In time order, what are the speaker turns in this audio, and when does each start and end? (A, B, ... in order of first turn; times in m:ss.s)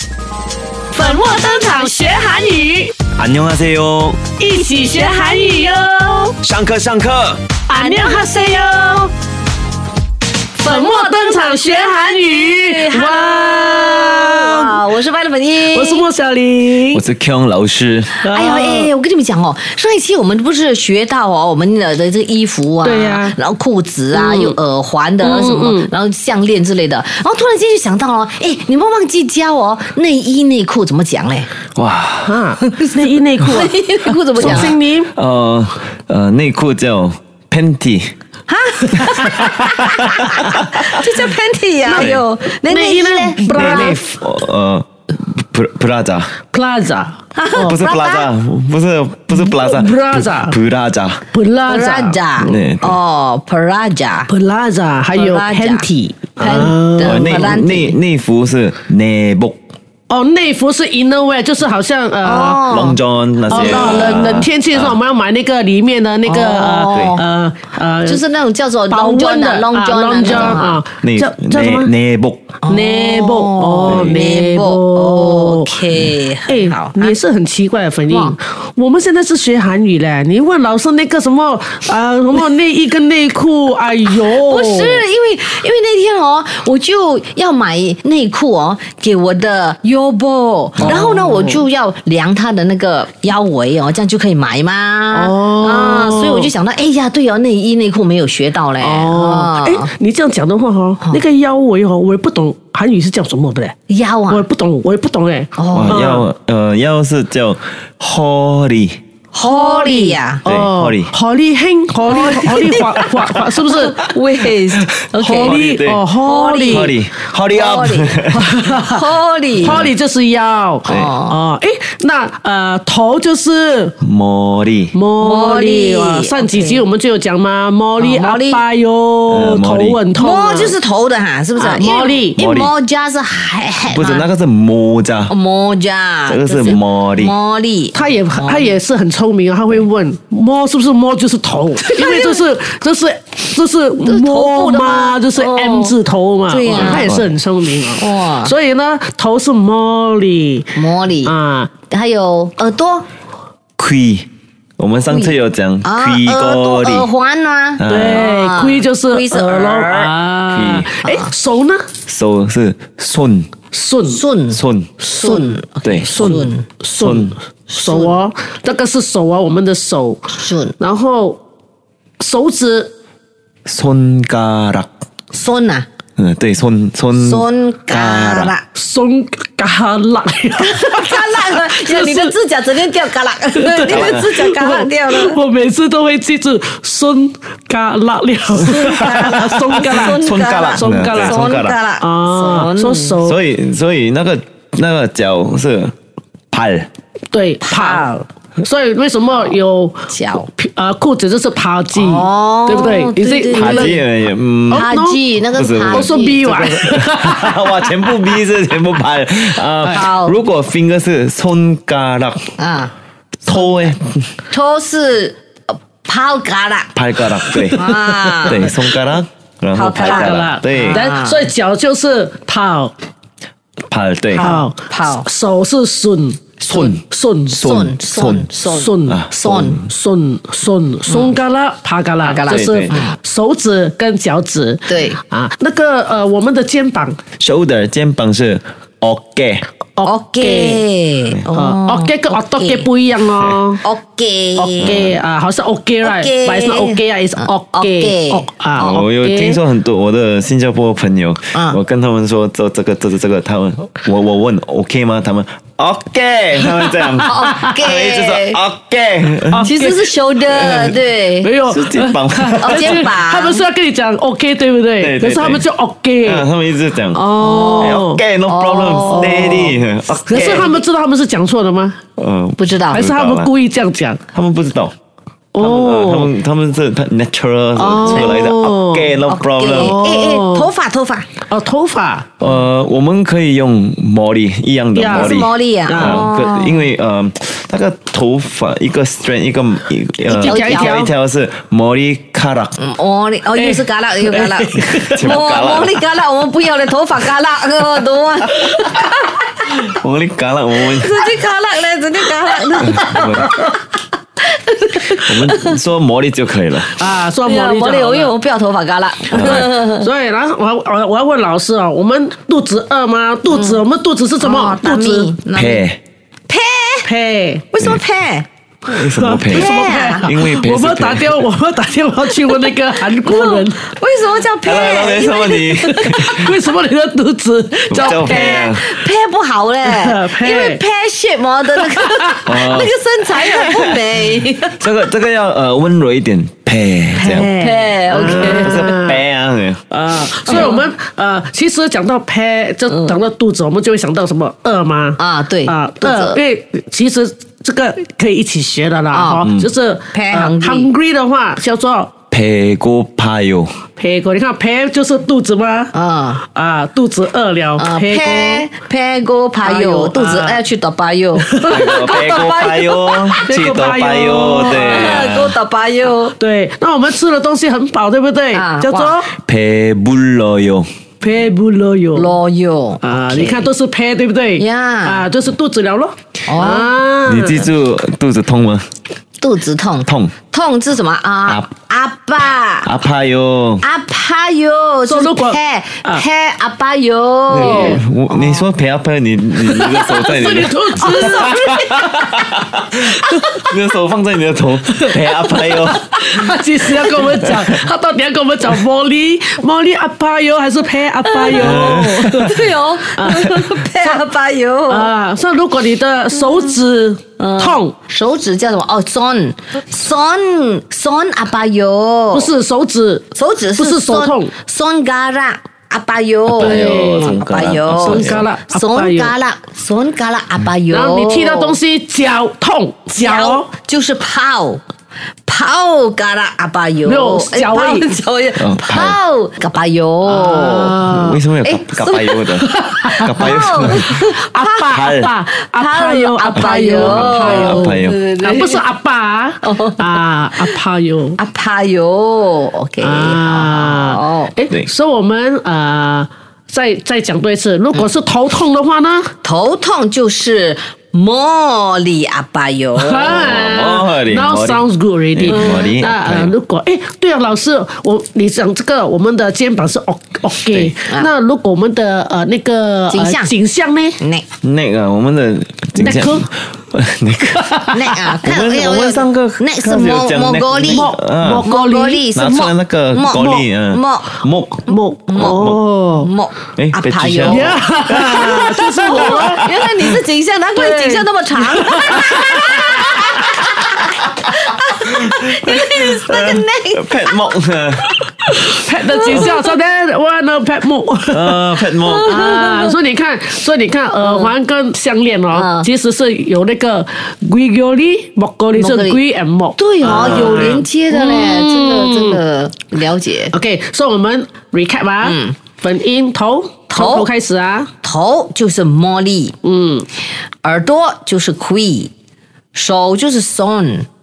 0:00.9-0:02.9 A
0:03.2-0:04.2 B
0:04.4-0:06.4 A
0:06.4-0:07.4 B
0:07.7-0:09.1 A
0:07.7-0:08.5 C
0:10.6-0:16.1 C
0:10.6-0:14.8 A
0:15.6-0:17.0 A
0:16.9-0:18.2 B
0:18.2-0:18.9 A
0:18.3-0:31.5 C
0:22.8-0:23.4 A
0:24.1-0:24.6 A
0:25.2-0:25.9 A
0:31.8-0:32.4 B
0:32.2-0:33.8 A
0:33.4-0:34.7 C
0:34.3-0:35.1 A
0:34.3-0:38.1 B
0:38.5-0:44.0 C
0:39.9-0:40.4 B
0:41.8-0:44.2 A
0:41.9-0:42.2 B
0:43.5-0:46.3 B
0:46.5-0:47.8 A
0:47.3-0:48.3 C
0:47.6-0:51.2 B
0:49.3-0:50.6 A
0:51.3-0:52.2 A
0:51.7-0:54.3 C
0:52.4-0:53.0 B
0:54.3-0:57.5 A
0:55.1-0:58.0 C
0:56.4-0:59.6 B
1:00.1-1:02.7 A
1:02.2-1:03.0 C
1:02.7-1:04.9 B
1:03.5-1:04.5 C
1:03.5-1:08.2 A
1:06.2-1:07.2 C
1:06.9-1:07.2 B
1:08.0-1:10.8 C
1:08.9-1:11.9 A
1:10.3-1:12.4 B
1:12.6-1:17.2 C
1:12.6-1:15.8 A
1:13.9-1:14.2 B
1:16.5-1:25.0 A
1:18.1-1:18.4 C
1:24.2-1:39.9 C
1:30.8-1:31.0 B
1:30.8-1:31.6 A
1:35.1-1:36.5 A
1:38.8-1:43.7 A
1:43.9-1:44.4 C
1:44.3-1:46.2 A
1:45.6-1:46.0 C
1:45.7-1:49.0 B
1:49.3-1:50.4 C
1:49.4-1:54.0 A
1:50.4-1:51.1 B
1:52.0-1:56.9 C
1:54.8-1:56.0 B
1:55.1-1:57.0 A
1:56.7-1:58.6 B
1:57.5-1:59.8 C
1:58.3-2:03.9 A
1:59.6-1:59.9 B
2:00.8-2:01.4 C
2:00.9-2:01.1 B
2:04.0-2:04.9 B
2:04.9-2:10.8 A
2:05.2-2:06.8 C
2:08.0-2:08.6 C
2:09.3-2:10.0 B
2:10.1-2:14.3 C
2:11.6-2:12.4 A
2:12.4-2:12.7 B
2:13.9-2:15.3 B
2:15.3-2:18.7 C
2:16.3-2:17.3 B
2:17.9-2:31.7 A
2:21.8-2:22.3 C
2:24.0-2:25.9 C
2:26.5-2:27.1 C
2:26.8-2:27.3 B
2:28.0-2:28.5 C
2:30.7-2:33.1 C
2:33.8-2:34.3 B
2:34.8-2:37.1 B
2:35.1-2:40.1 C
2:37.8-2:38.3 B
2:37.9-2:41.9 A
2:40.5-2:40.9 B
2:41.0-2:41.3 C
2:42.1-2:43.5 B
2:43.7-2:44.2 A
2:44.1-2:46.6 C
2:44.5-2:44.9 B
2:45.0-2:50.2 A
2:45.8-2:46.3 B
2:46.9-2:47.4 B
2:47.7-2:48.2 C
2:50.3-2:50.7 C
2:50.8-2:51.4 A
2:52.2-2:52.9 A
2:53.6-2:54.9 B
2:55.3-2:55.9 C
2:56.2-2:58.5 B
2:57.2-2:58.6 C
2:58.7-3:02.4 A
3:00.6-3:05.4 C
3:03.5-3:13.4 A
3:03.9-3:04.4 B
3:08.5-3:13.2 C
3:08.8-3:11.8 B
3:13.2-3:15.9 B
3:16.5-3:16.9 B
3:17.3-3:24.0 A
3:17.6-3:18.1 C
3:20.1-3:20.5 C
3:21.9-3:24.0 C
3:23.5-3:24.9 B
3:24.7-3:25.2 A
3:24.7-3:26.7 C
3:25.5-3:32.6 B
3:25.9-3:27.8 A
3:29.8-3:30.4 C
3:32.6-3:32.9 C
3:33.4-3:34.4 B
3:34.5-3:36.9 C
3:36.9-3:41.0 B
3:37.5-3:38.7 A
3:37.7-3:38.7 C
3:39.7-3:41.5 C
3:40.0-3:42.9 A
3:43.9-3:44.6 B
3:44.3-3:45.3 C
3:44.4-3:47.7 A
3:46.7-3:48.5 B
3:47.5-3:49.8 C
3:48.6-3:49.3 A
3:49.0-3:49.8 B
3:49.8-3:57.2 A
3:51.1-3:51.3 C
3:52.2-3:53.2 C
3:52.5-3:53.0 B
3:54.9-3:55.2 C
3:57.4-3:59.7 B
4:00.0-4:00.8 A
4:00.0-4:02.9 C
4:01.5-4:03.8 A
4:03.8-4:05.0 C
4:04.6-4:09.6 A
4:04.8-4:05.2 B
4:06.0-4:09.0 C
4:08.7-4:19.7 B
4:16.9-4:17.6 A
4:17.2-4:18.6 C
4:19.5-4:26.5 A
4:19.6-4:21.5 C
4:20.5-4:20.9 B
4:21.6-4:23.1 B
4:22.6-4:23.6 C
4:25.0-4:25.6 B
4:26.2-4:30.7 B
4:27.1-4:28.2 A
4:27.4-4:29.7 C
4:29.0-4:32.0 A
4:30.4-4:30.8 C
4:32.2-4:33.5 B
4:32.6-4:33.0 C
4:32.9-4:34.2 A
4:34.3-4:34.9 B
4:35.5-4:36.3 A
4:35.6-4:40.0 B
4:37.8-4:39.1 A
4:38.0-4:38.3 C
4:39.3-4:41.3 C
4:39.7-4:40.7 A
4:41.5-4:42.3 A
4:42.4-4:52.8 B
4:44.9-4:46.2 A
4:45.1-4:46.9 C
4:50.3-4:51.0 C
4:50.3-4:51.1 A
4:52.8-4:59.7 C
4:53.5-4:55.2 A
4:55.0-4:56.0 B
4:59.7-5:01.3 B
5:00.8-5:03.8 C
5:02.8-5:03.6 B
5:04.4-5:05.8 C
5:05.1-5:07.0 B
5:07.0-5:08.3 A
5:07.4-5:10.1 C
5:09.3-5:09.8 B
5:09.4-5:15.3 A
5:13.5-5:13.8 C
5:14.4-5:15.8 C
5:15.5-5:16.0 B
5:16.5-5:17.1 C
5:17.0-5:17.7 A
5:17.7-5:18.5 C
5:18.9-5:21.4 B
5:18.9-5:23.9 A
5:19.5-5:20.3 C
5:22.4-5:25.6 C
5:24.6-5:26.5 B
5:25.8-5:28.8 A
5:27.8-5:34.8 C
5:27.9-5:28.9 B
5:29.8-5:30.8 A
5:31.8-5:32.2 A
5:32.4-5:34.0 B
5:34.7-5:37.5 B
5:37.1-5:38.8 C
5:37.6-5:39.2 A
5:38.1-5:39.8 B
5:39.9-5:52.1 A
5:40.5-5:40.8 C
5:45.2-5:46.4 C
5:49.1-5:49.4 C
5:49.4-5:49.7 B
5:50.1-5:50.9 C
5:52.3-5:53.8 B
5:54.0-5:58.7 A
5:55.9-5:56.4 C
5:57.8-6:03.5 C
5:59.6-6:00.6 A
6:01.3-6:02.2 A
6:01.6-6:05.5 B
6:03.4-6:05.3 A
6:04.5-6:06.3 C
6:06.4-6:09.3 A
6:08.5-6:09.2 C
6:09.4-6:10.9 B
6:11.2-6:12.4 A
6:12.1-6:13.7 C
6:13.0-6:17.7 A
6:14.6-6:15.2 C
6:16.4-6:16.9 C
6:17.2-6:18.9 B
6:19.4-6:22.9 C
6:20.0-6:20.3 B
6:22.8-6:23.8 B
6:23.8-6:28.0 C
6:25.0-6:26.2 A
6:27.5-6:28.7 A
6:27.5-6:36.2 B
6:29.6-6:32.4 A
6:33.1-6:33.7 A
6:34.9-6:42.6 A
6:37.0-6:37.7 B
6:41.3-6:45.1 C
6:41.5-6:42.6 B
6:43.1-6:44.2 A
6:44.9-6:47.9 A
6:46.3-6:46.7 C
6:47.4-6:52.5 C
6:52.3-6:54.5 A
6:53.3-7:01.8 C
6:56.5-6:58.4 B
6:56.6-6:57.4 A
6:58.0-6:59.3 A
7:00.9-7:03.7 A
7:03.1-7:04.8 C
7:05.4-7:11.0 C
7:07.0-7:08.2 A
7:08.6-7:09.2 B
7:10.2-7:11.4 A
7:11.0-7:14.2 B
7:11.6-7:14.9 C
7:12.8-7:21.4 A
7:14.9-7:15.3 B
7:15.7-7:18.8 C
7:16.5-7:18.2 B
7:19.6-7:20.2 C
7:21.4-7:24.5 C
7:23.0-7:29.3 A
7:29.4-7:33.6 C
7:32.9-7:44.2 A
7:33.3-7:36.5 B
7:35.5-7:35.8 C
7:43.1-7:43.5 C
7:44.2-7:44.4 C
7:44.6-7:47.8 B
7:46.0-7:46.5 A
7:47.7-7:48.2 A
7:47.9-7:51.0 C
7:48.4-7:51.7 B
7:50.8-7:52.6 A
7:51.6-7:54.4 C
7:52.3-7:55.8 B
7:53.4-7:53.6 A
7:54.9-7:56.3 A
7:55.3-8:07.4 C
7:56.8-8:00.1 B
7:57.4-7:59.7 A
8:00.8-8:03.3 A
8:05.1-8:08.2 B
8:08.4-8:11.7 A
8:09.1-8:09.6 C
8:11.3-8:12.5 B
8:12.0-8:12.9 C
8:12.2-8:22.4 A
8:14.2-8:14.5 C
8:15.5-8:15.9 C
8:18.7-8:19.2 C
8:19.8-8:23.5 C
8:20.0-8:20.8 B
8:23.5-8:27.9 A
8:25.2-8:25.6 C
8:26.9-8:27.3 C
8:28.0-8:29.6 C
8:29.6-8:30.1 A
8:30.6-8:32.1 C
8:32.7-8:34.1 C